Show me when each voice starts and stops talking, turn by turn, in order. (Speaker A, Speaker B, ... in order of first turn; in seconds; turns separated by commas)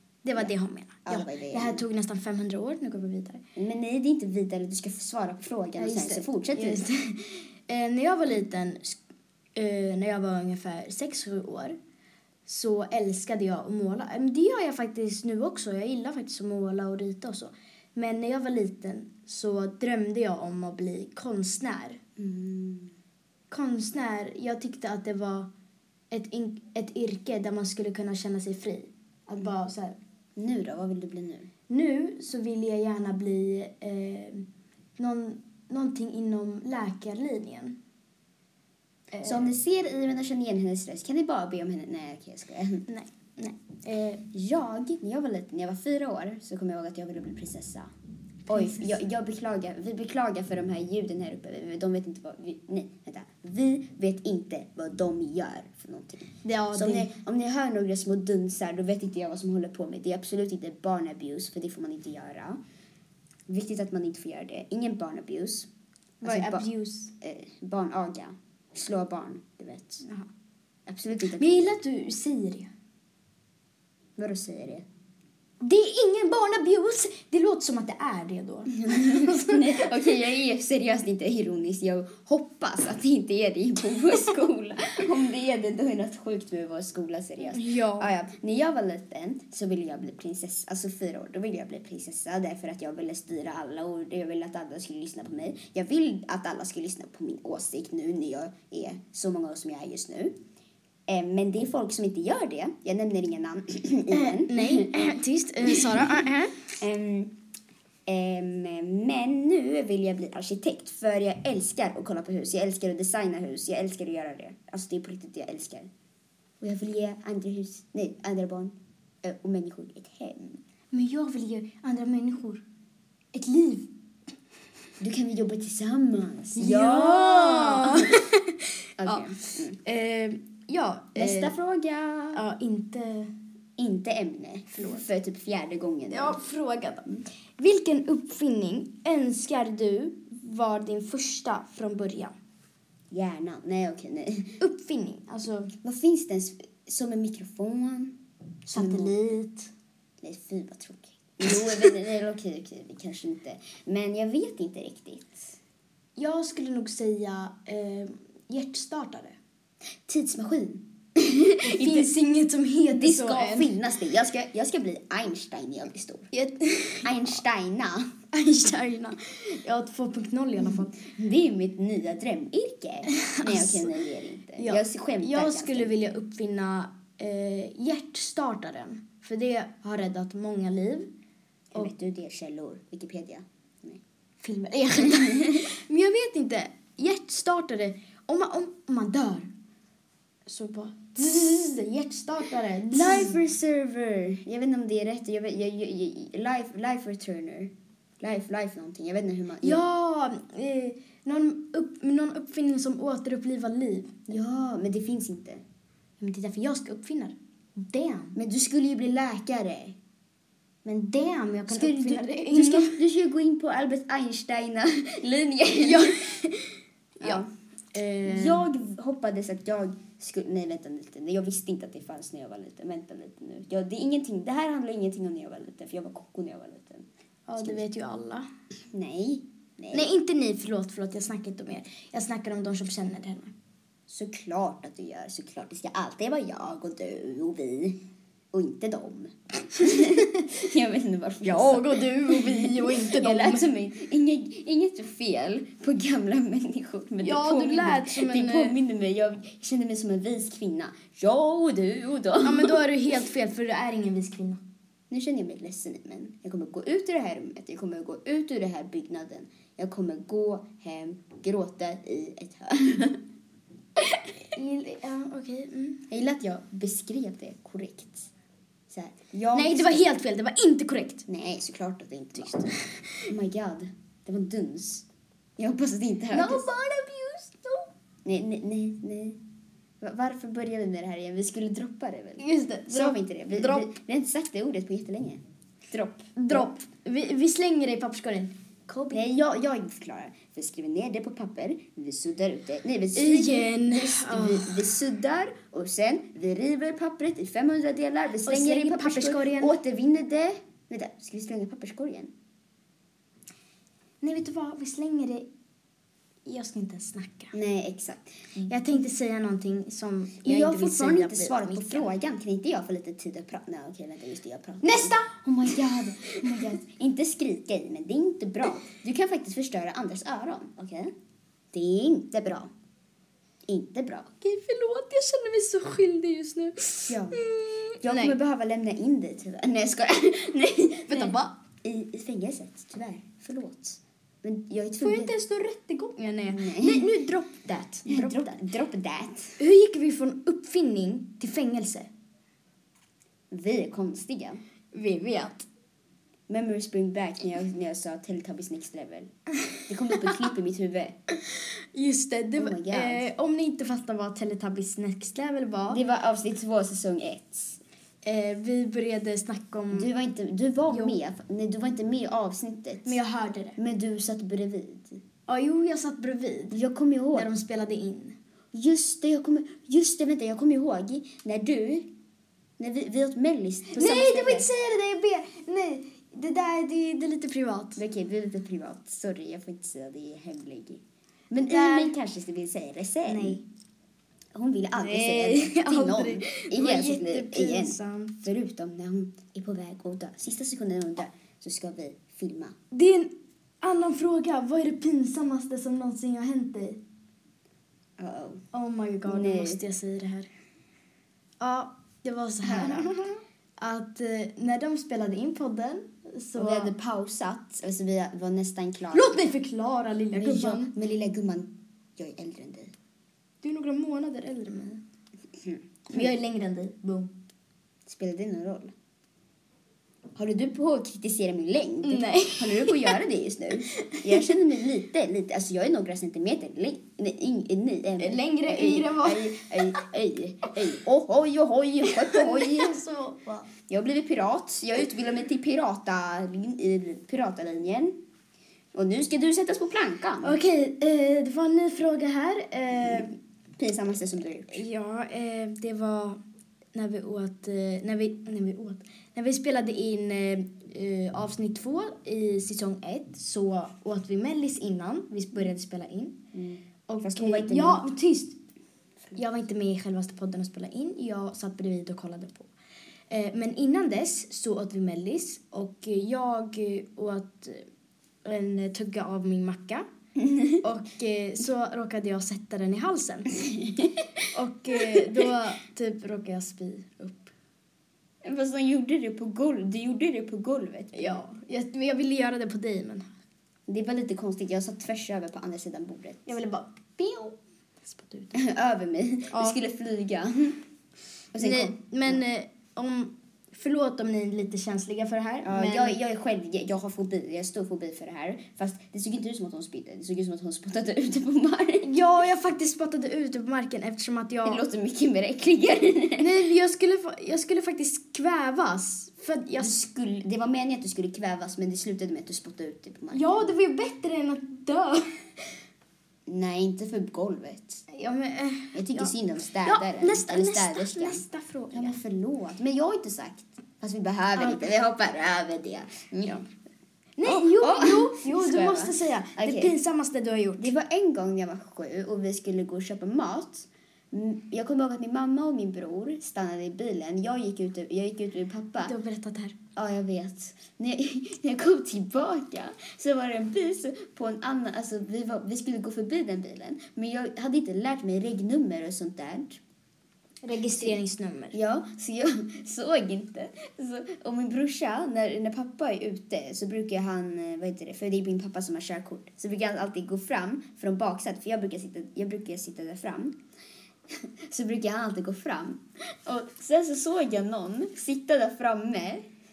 Speaker A: 0.2-3.4, Speaker B: 1.1-1.8, Speaker B: 3.6-7.5, Speaker A: 5.8-6.9, Speaker A: 7.7-9.0, Speaker A: 9.6-11.8, Speaker A: 12.5-22.0, Speaker B: 22.2-22.9, Speaker A: 23.5-25.5, Speaker A: 26.1-30.0, Speaker B: 30.4-31.5, Speaker A: 31.7-34.5, Speaker A: 35.0-37.8, Speaker A: 39.1-39.4, Speaker B: 39.2-42.9, Speaker A: 42.9-44.2, Speaker B: 44.3-47.9, Speaker B: 48.5-62.6, Speaker A: 48.5-48.8, Speaker A: 56.4-57.1, Speaker B: 63.5-65.7, Speaker A: 66.2-67.1, Speaker B: 66.2-66.7, Speaker B: 67.2-70.1, Speaker B: 70.9-71.8, Speaker A: 71.4-72.7, Speaker B: 74.2-74.8, Speaker A: 75.6-79.9, Speaker B: 78.7-100.3, Speaker A: 87.5-88.1, Speaker B: 101.1-106.2, Speaker A: 104.1-106.7, Speaker B: 106.8-107.3, Speaker B: 108.1-115.9, Speaker B: 116.6-120.6, Speaker A: 120.9-122.6, Speaker A: 123.3-123.9, Speaker B: 125.0-128.1, Speaker A: 126.6-131.5, Speaker B: 129.0-129.8, Speaker B: 131.2-132.4, Speaker A: 132.3-133.3, Speaker B: 133.8-136.4, Speaker A: 134.7-135.0, Speaker A: 136.1-142.3, Speaker B: 143.1-144.6, Speaker A: 144.6-145.7, Speaker B: 145.8-148.2, Speaker A: 148.7-149.7, Speaker B: 148.7-149.2, Speaker B: 150.2-155.6, Speaker A: 156.2-159.4, Speaker B: 160.1-162.1, Speaker A: 161.6-163.7, Speaker B: 162.9-166.3, Speaker A: 166.3-167.4, Speaker B: 167.0-168.1, Speaker A: 168.3-171.0, Speaker B: 171.0-175.9, Speaker A: 173.1-174.0, Speaker A: 174.6-181.1, Speaker B: 181.7-184.0, Speaker A: 184.4-189.5, Speaker B: 185.1-185.5, Speaker A: 190.5-193.4, Speaker B: 192.9-199.8, Speaker A: 199.6-204.1, Speaker B: 204.3-205.6, Speaker A: 206.2-208.4, Speaker B: 208.4-209.9, Speaker A: 210.8-213.0, Speaker B: 211.7-216.4, Speaker A: 215.8-217.4, Speaker B: 217.2-217.5, Speaker A: 217.9-218.7, Speaker B: 218.2-227.1, Speaker A: 227.5-228.5, Speaker B: 227.6-227.8, Speaker B: 228.9-230.1, Speaker A: 229.9-233.5, Speaker B: 234.1-252.8, Speaker A: 239.8-240.5, Speaker A: 241.4-243.7, Speaker A: 247.2-248.8, Speaker A: 252.4-254.6, Speaker B: 255.1-263.2, Speaker A: 264.6-266.0, Speaker B: 266.1-268.3, Speaker B: 268.9-270.1, Speaker A: 269.5-271.2, Speaker B: 271.3-272.7, Speaker B: 273.3-275.1, Speaker B: 275.6-276.6, Speaker A: 276.3-277.9, Speaker B: 278.2-279.4, Speaker B: 280.0-286.7, Speaker A: 282.4-283.9, Speaker A: 286.4-289.3, Speaker B: 289.1-302.3, Speaker A: 293.1-294.8, Speaker A: 298.4-299.8, Speaker A: 304.2-305.5, Speaker A: 306.5-307.5, Speaker B: 307.5-308.7, Speaker A: 308.7-312.1, Speaker B: 310.4-321.1, Speaker A: 314.8-315.3, Speaker B: 321.7-322.7, Speaker B: 323.7-324.3, Speaker A: 324.4-328.4, Speaker B: 327.1-327.4, Speaker B: 328.0-335.3, Speaker A: 331.1-331.5, Speaker A: 335.0-338.6, Speaker B: 336.5-337.1, Speaker B: 338.1-339.6, Speaker A: 339.6-342.1, Speaker B: 343.5-344.6, Speaker A: 344.9-345.7, Speaker B: 346.5-349.3, Speaker B: 349.9-351.1, Speaker A: 351.5-356.0, Speaker B: 352.6-353.3, Speaker B: 355.9-357.8, Speaker A: 358.2-360.1, Speaker B: 359.9-363.2, Speaker A: 360.9-361.2, Speaker A: 363.1-363.8, Speaker B: 363.8-365.2, Speaker A: 365.5-366.8, Speaker B: 366.7-367.5, Speaker A: 367.3-368.4, Speaker B: 368.7-372.1, Speaker B: 372.8-374.7, Speaker A: 373.9-378.0, Speaker B: 378.0-383.6, Speaker A: 381.6-382.1, Speaker A: 383.3-383.6, Speaker B: 384.6-392.8, Speaker A: 385.0-388.4, Speaker A: 392.9-397.0, Speaker B: 398.2-398.6, Speaker A: 398.7-400.5, Speaker B: 399.3-399.8, Speaker A: 401.6-406.9, Speaker B: 402.6-403.2, Speaker B: 406.6-409.4, Speaker A: 409.1-410.9, Speaker B: 410.3-412.9, Speaker A: 413.6-415.0, Speaker B: 415.6-416.3, Speaker A: 416.1-417.3, Speaker B: 418.1-418.9, Speaker B: 420.4-433.0, Speaker A: 422.1-423.2, Speaker A: 424.0-424.4, Speaker A: 428.2-430.0, Speaker A: 432.1-433.7, Speaker B: 433.9-438.2, Speaker B: 438.9-440.6, Speaker A: 440.4-443.4, Speaker B: 443.8-444.8, Speaker A: 444.7-446.4, Speaker A: 446.9-456.4, Speaker B: 456.5-458.1, Speaker A: 457.1-458.6, Speaker A: 459.4-462.7, Speaker A: 463.3-467.9, Speaker A: 468.4-470.1, Speaker B: 470.4-470.8, Speaker A: 470.8-473.5, Speaker B: 473.8-474.2, Speaker A: 474.5-477.5, Speaker B: 478.4-481.4, Speaker A: 481.1-483.2, Speaker B: 483.9-486.6, Speaker A: 486.5-488.6, Speaker B: 488.5-490.8, Speaker A: 489.5-489.8, Speaker B: 491.5-492.4, Speaker A: 491.6-496.2, Speaker B: 495.6-502.2, Speaker A: 502.1-504.8, Speaker B: 504.6-506.6, Speaker A: 506.4-510.0, Speaker B: 509.8-513.6, Speaker A: 513.3-515.2, Speaker B: 516.5-518.0, Speaker A: 518.1-519.3, Speaker B: 518.9-526.7, Speaker A: 519.8-522.2, Speaker A: 524.6-524.9, Speaker A: 527.4-530.9, Speaker B: 527.5-530.0, Speaker B: 530.8-539.1, Speaker A: 539.0-539.8, Speaker B: 540.0-549.8, Speaker A: 550.6-551.8, Speaker B: 550.9-551.2, Speaker B: 551.7-563.6, Speaker B: 564.7-569.4